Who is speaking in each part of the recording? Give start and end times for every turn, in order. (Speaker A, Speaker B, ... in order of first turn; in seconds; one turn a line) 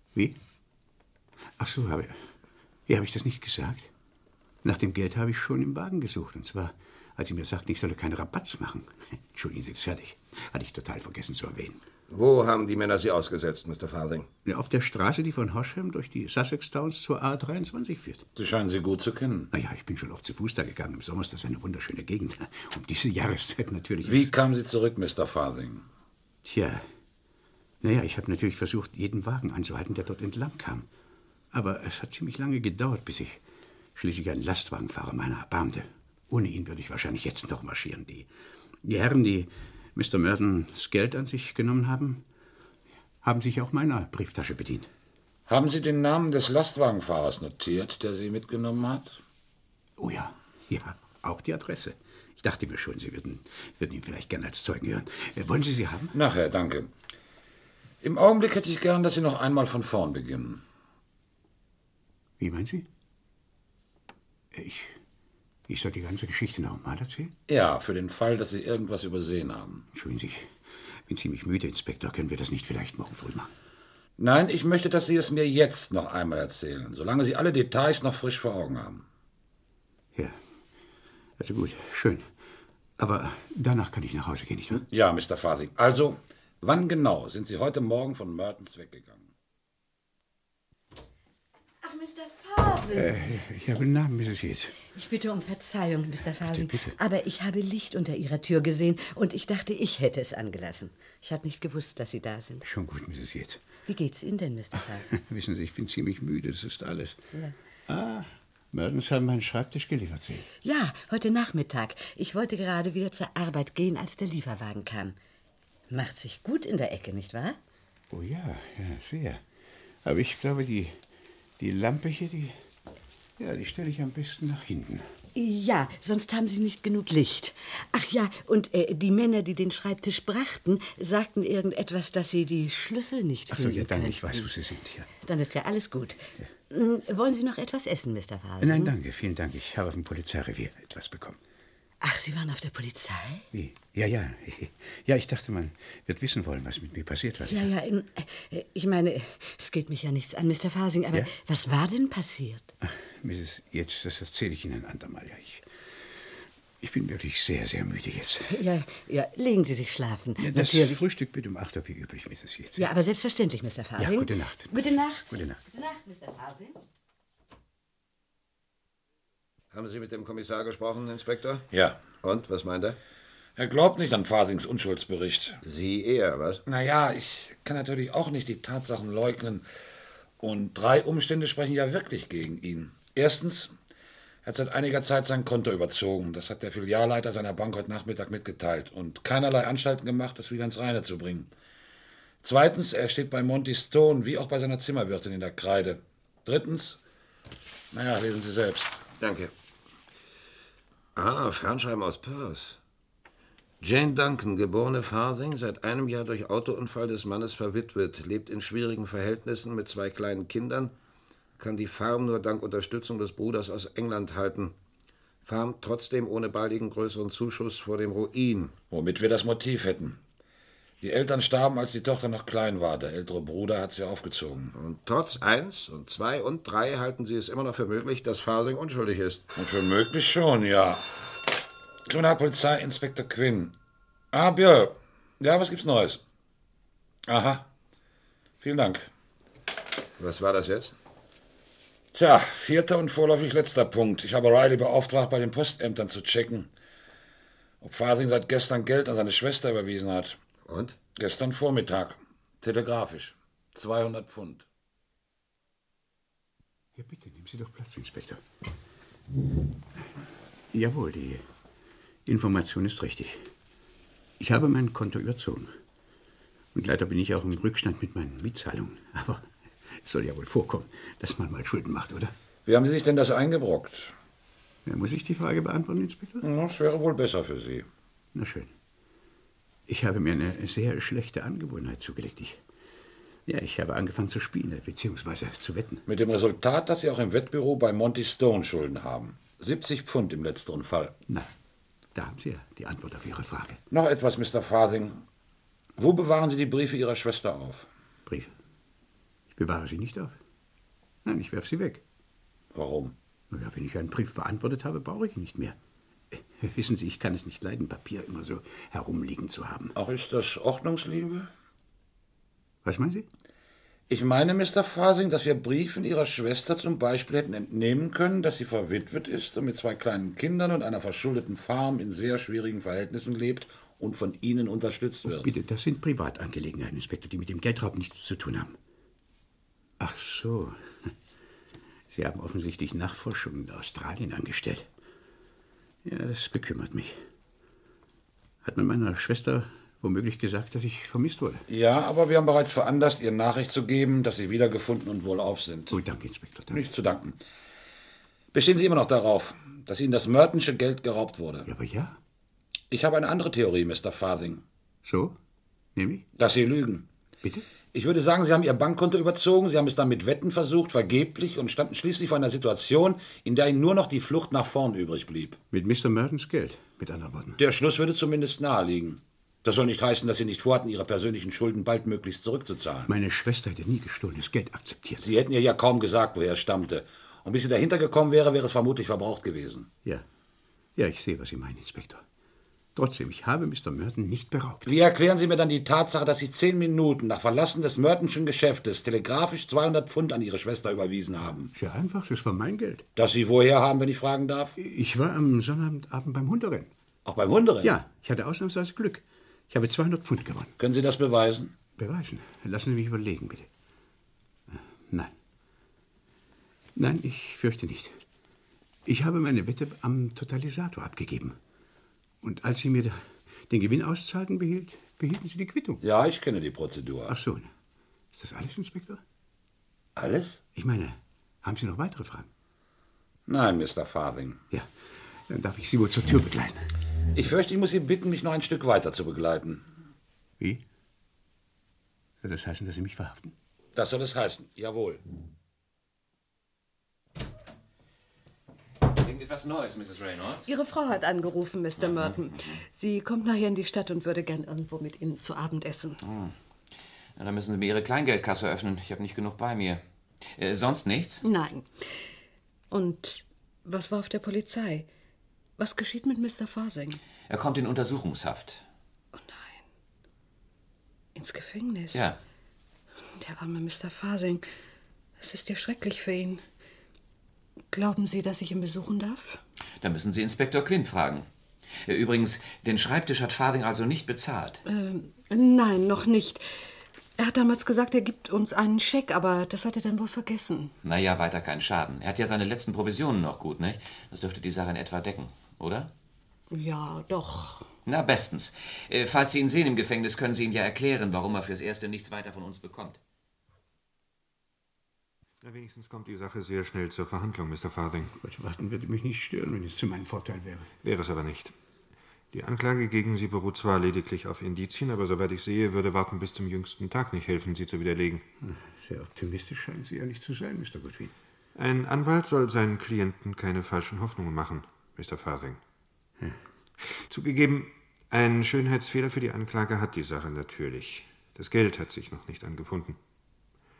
Speaker A: 1.6-2.2
Speaker A: 2.9-3.9
Speaker A: 4.6-11.8
Speaker B: 12.1-14.3
Speaker A: 14.4-18.3
Speaker C: 18.4-19.5
Speaker A: 19.5-24.3
Speaker C: 24.1-25.9
Speaker A: 26.4-26.9
Speaker A: 27.8-30.9
Speaker A: 31.5-33.4
Speaker A: 34.0-38.3
Speaker A: 38.8-42.2
Speaker A: 43.2-44.9
Speaker C: 45.5-49.2
Speaker A: 50.0-56.1
Speaker C: 56.1-56.9
Speaker C: 58.0-60.6
Speaker A: 62.4-62.9
Speaker A: 64.5-65.0
Speaker A: 65.7-67.3
Speaker C: 67.5-69.9
Speaker A: 69.9-70.5
Speaker A: 71.1-73.5
Speaker C: 74.2-79.0
Speaker A: 81.4-82.3
Speaker A: 83.0-84.8
Speaker C: 84.7-89.3
Speaker D: 91.8-93.3
Speaker A: 92.9-94.8
Speaker D: 94.9-102.6
Speaker A: 96.4-97.0
Speaker A: 102.6-103.6
Speaker D: 103.9-105.1
Speaker A: 105.1-107.3
Speaker A: 107.9-110.5
Speaker D: 110.6-115.2
Speaker D: 115.9-117.6
Speaker A: 118.1-119.4
Speaker A: 120.0-121.0
Speaker A: 121.6-122.5
Speaker A: 123.4-125.1
Speaker D: 125.3-134.5
Speaker A: 133.5-135.1
Speaker D: 135.2-138.9
Speaker A: 138.6-141.4
Speaker D: 142.0-143.5
Speaker A: 143.5-147.7
Speaker D: 147.5-152.7
Speaker A: 152.8-155.7
Speaker A: 156.8-158.7
Speaker D: 158.5-161.0
Speaker A: 160.4-162.9
Speaker D: 162.8-166.8
Speaker A: 164.0-165.6
Speaker B: 169.7-171.7
Speaker C: 171.7-172.0
Speaker B: 172.2-173.0
Speaker C: 173.6-175.6
Speaker B: 175.6-176.6
Speaker C: 176.7-179.7
Speaker C: 180.4-183.7
Speaker C: 184.4-191.5
Speaker C: 192.4-197.0
Speaker C: 197.9-199.1
Speaker B: 199.2-199.5
Speaker B: 201.2-202.8
Speaker B: 203.8-210.9
Speaker B: 211.6-214.7
Speaker B: 215.5-218.7
Speaker C: 218.9-220.2
Speaker C: 221.0-224.7
Speaker B: 224.7-229.4
Speaker C: 229.6-231.0
Speaker C: 232.1-233.7
Speaker C: 234.3-236.2
Speaker C: 237.3-237.7
Speaker C: 238.6-239.1
Speaker B: 240.2-240.9
Speaker C: 242.1-246.7
Speaker C: 247.8-250.4
Speaker B: 250.7-251.0
Speaker C: 251.2-254.7
Speaker A: 256.9-258.4
Speaker A: 260.7-261.4
Speaker A: 262.3-263.5
Speaker A: 264.4-265.7
Speaker A: 266.7-272.3
Speaker C: 272.7-274.1
Speaker A: 274.9-276.4
Speaker C: 276.4-277.9
Speaker A: 278.3-278.7
Speaker A: 279.9-282.6
Speaker A: 283.5-286.0
Speaker C: 286.1-291.2
Speaker A: 292.1-293.8
Speaker C: 293.9-295.2
Speaker C: 296.0-297.9
Speaker A: 298.3-298.5
Speaker A: 299.6-300.4
Speaker A: 301.2-302.0
Speaker C: 302.7-303.1
Speaker A: 303.5-305.8
Speaker A: 306.3-309.9
Speaker C: 309.9-311.5
Speaker A: 312.8-313.3
Speaker C: 314.1-325.5
Speaker A: 325.2-328.8
Speaker A: 330.0-331.1
Speaker A: 332.1-334.9
Speaker A: 336.0-337.2
Speaker A: 338.6-341.7
Speaker C: 341.7-346.0
Speaker A: 345.9-346.8
Speaker C: 346.7-347.4
Speaker C: 348.5-351.7
Speaker A: 351.7-352.2
Speaker C: 352.9-354.6
Speaker A: 355.0-355.4
Speaker A: 356.0-356.3
Speaker C: 356.4-357.1
Speaker C: 357.9-365.6
Speaker A: 365.7-367.6
Speaker C: 367.6-373.1
Speaker A: 373.1-375.3
Speaker C: 375.2-379.9
Speaker A: 381.0-382.2
Speaker A: 382.9-384.9
Speaker C: 384.9-391.7
Speaker A: 391.8-393.1
Speaker C: 393.2-394.7
Speaker A: 394.8-396.9
Speaker C: 397.3-397.9
Speaker A: 397.8-400.8
Speaker C: 400.8-401.7
Speaker A: 402.0-403.7
Speaker A: 404.7-405.3
Speaker A: 406.9-408.2
Speaker A: 409.1-411.6
Speaker A: 412.4-416.0
Speaker C: 416.0-417.3
Speaker A: 417.3-417.7
Speaker A: 418.3-419.2
Speaker C: 420.2-420.6
Speaker A: 420.8-422.5
Speaker C: 423.5-424.6
Speaker A: 425.5-426.9
Speaker C: 427.3-429.9
Speaker A: 432.4-433.6
Speaker C: 433.9-435.2
Speaker E: 439.1-440.7
Speaker F: 440.6-446.2
Speaker E: 442.0-442.8
Speaker E: 446.2-446.5
Speaker E: 447.4-450.0
Speaker E: 450.6-451.4
Speaker F: 451.4-451.9
Speaker F: 452.9-455.1
Speaker F: 455.8-457.2
Speaker E: 457.5-458.9
Speaker F: 459.4-459.8
Speaker F: 461.4-462.3
Speaker E: 462.1-462.4
Speaker F: 463.4-464.6
Speaker F: 465.4-466.6
Speaker F: 467.9-469.6
Speaker E: 470.0-471.5
Speaker E: 472.0-474.8
Speaker F: 474.9-476.6
Speaker F: 477.4-480.9
Speaker E: 481.0-486.1
Speaker F: 486.7-487.9
Speaker E: 488.1-493.2
Speaker G: 495.6-498.3
Speaker A: 498.3-500.9
Speaker G: 501.0-501.7
Speaker G: 502.5-508.5
Speaker A: 508.6-511.3
Speaker G: 511.8-515.8
Speaker G: 517.3-523.2